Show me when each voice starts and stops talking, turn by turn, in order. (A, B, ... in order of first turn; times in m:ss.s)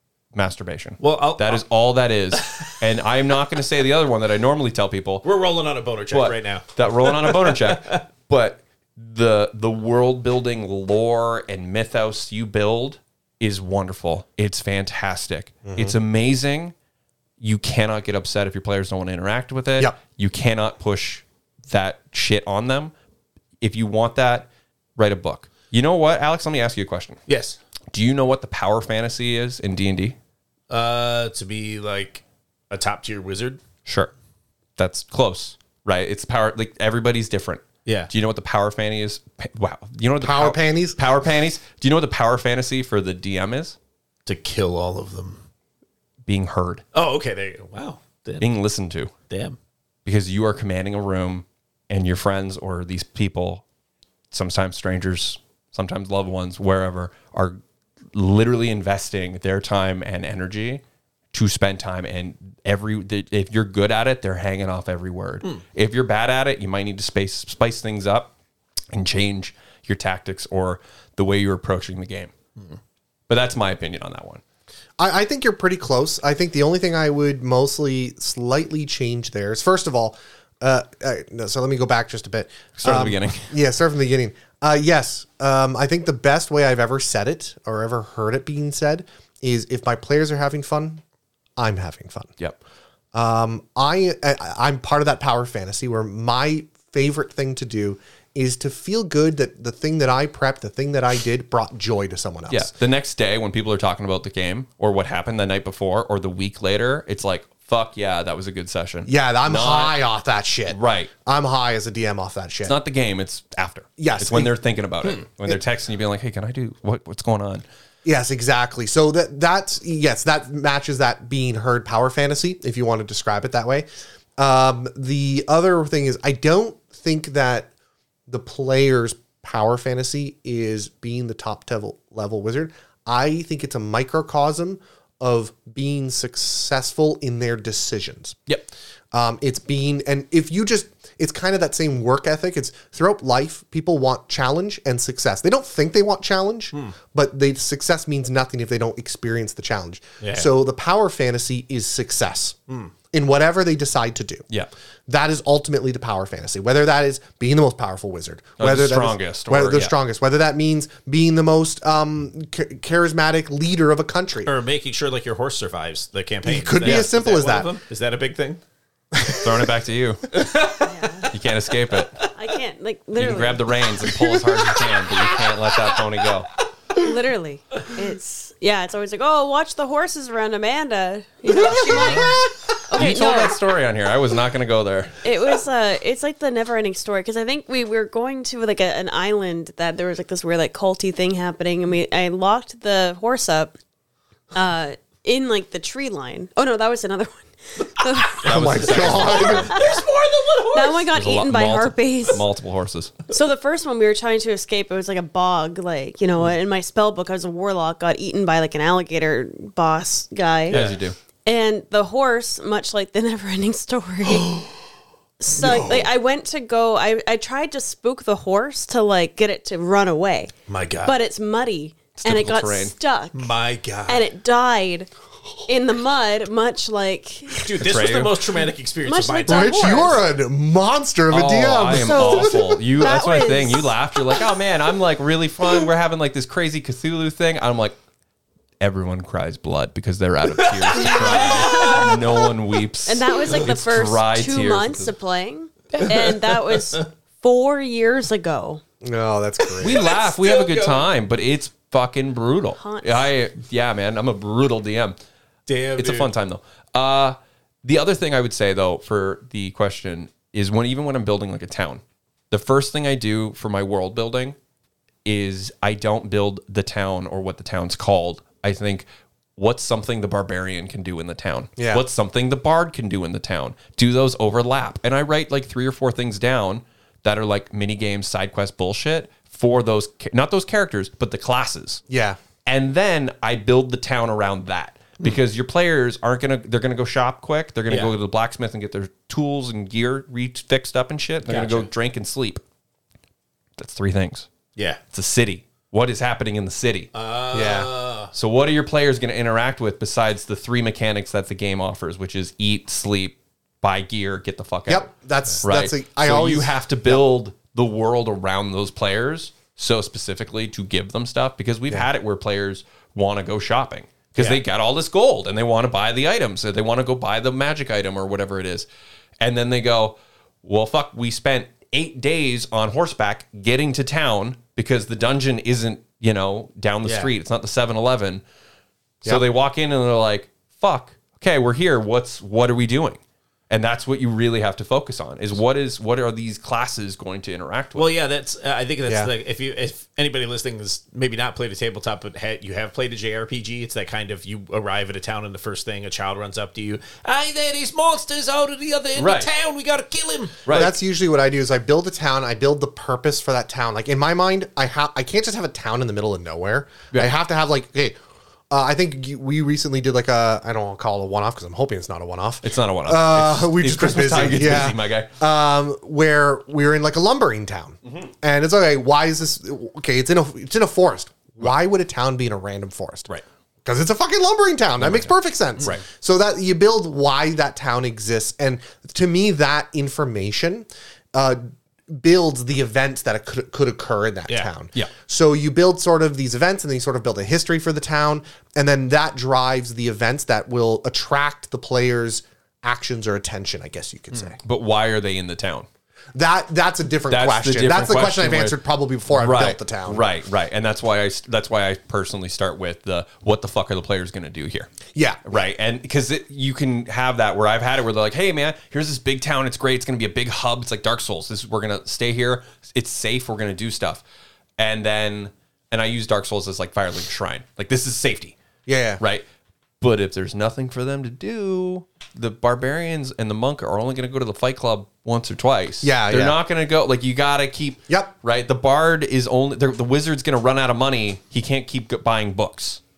0:00.3-0:05.2 A
0:01.0-0:01.6 B
0:02.4-0:02.7 B
0:05.2-0:08.0 B
0:06.1-0:16.7 A
0:15.6-0:16.0 C
0:17.4-0:22.9 A
0:23.6-0:27.2 A
0:27.3-0:27.6 B
0:27.9-0:30.2 A
0:30.7-0:33.6 B
0:33.8-0:34.1 A
0:34.8-0:43.8 A
0:37.8-0:38.1 B
0:40.2-0:41.0 C
0:44.3-0:45.4 B
0:46.3-0:46.8 A
0:46.9-0:48.5 B
0:48.4-0:49.1 A
0:49.3-0:49.6 B
0:50.0-0:53.6 A
0:54.3-0:57.6 A
0:58.1-1:00.8 A
1:01.3-1:08.3 A
1:08.9-1:12.3 A
1:13.3-1:14.4 A
1:15.0-1:31.0 C
1:22.8-1:23.5 A
1:31.6-1:32.3 C
1:33.1-1:42.7 C
1:42.5-1:50.0 A
1:49.1-1:52.8 C
1:50.7-1:51.1 A
1:52.6-1:57.6 A
1:54.0-1:54.6 C
1:58.0-2:07.7 C
2:08.3-2:18.4 C
2:19.1-2:32.6 C
2:30.2-2:30.5 B
2:33.1-2:34.5 C
2:35.1-2:44.5 C
2:38.6-2:40.0 A
2:44.5-2:48.6 B
2:46.4-2:47.7 C
2:46.8-2:47.1 A
2:49.1-2:49.5 C
2:49.3-2:50.3 A
2:50.3-2:51.3 B
2:50.8-2:51.3 D
2:51.3-2:52.2 A
2:51.9-2:52.6 B
2:52.4-2:53.8 D
2:53.2-2:56.5 A
2:57.0-3:03.6 D
3:01.5-3:02.6 B
3:02.0-3:02.4 A
3:02.9-3:05.2 A
3:05.2-3:13.8 D
3:14.5-3:20.0 D
3:18.2-3:21.1 B
3:18.4-3:19.7 A
3:18.5-3:19.8 C
3:20.7-3:22.4 D
3:21.1-3:23.1 A
3:23.3-3:30.8 D
3:30.7-3:31.0 B
3:30.7-3:31.2 A
3:31.4-3:34.7 D
3:34.3-3:34.7 B
3:35.4-3:40.5 D
3:35.6-3:36.1 B
3:40.7-3:41.2 B
3:41.0-3:43.5 D
3:42.2-3:42.9 A
3:43.3-3:44.3 B
3:44.1-3:45.1 D
3:45.7-3:47.7 D
3:47.6-3:50.2 B
3:47.8-3:48.4 A
3:49.0-3:50.2 D
3:49.5-3:52.6 C
3:51.3-3:58.0 A
3:51.9-3:53.9 D
3:58.8-4:05.1 A
4:00.6-4:02.4 B
4:00.9-4:02.5 D
4:03.1-4:08.8 D
4:06.0-4:07.0 B
4:09.0-4:10.1 C
4:09.8-4:11.1 B
4:09.8-4:15.2 A
4:12.8-4:13.3 D
4:15.7-4:16.3 B
4:16.0-4:24.6 A
4:25.2-4:42.0 A
4:31.8-4:32.0 C
4:42.1-4:42.4 C
4:42.7-4:52.6 A
4:47.9-4:48.1 B
4:51.5-4:51.9 B
4:53.8-4:54.5 A
4:55.1-4:57.1 A
4:57.1-4:58.3 B
4:57.5-4:57.9 C
4:58.3-5:05.1 A
5:04.9-5:07.2 C
5:05.6-5:18.9 A
5:19.4-5:28.4 A
5:27.0-5:27.3 B
5:29.2-5:38.1 A
5:38.0-5:50.7 B
5:49.2-5:49.5 A
5:50.6-5:50.9 A
5:50.7-5:58.2 C
5:58.7-6:13.3 C
6:02.6-6:05.3 A
6:08.0-6:08.3 A
6:13.8-6:34.6 C
6:15.0-6:16.0 A
6:34.6-6:35.9 A
6:36.3-6:40.2 C
6:37.3-6:38.8 A
6:39.3-6:44.9 A
6:45.1-6:45.4 C
6:45.4-6:54.2 A
6:54.8-6:58.6 A
6:58.9-6:59.2 C
6:59.2-6:59.4 A
7:00.0-7:13.0 A
7:06.0-7:06.6 C
7:08.1-7:08.3 C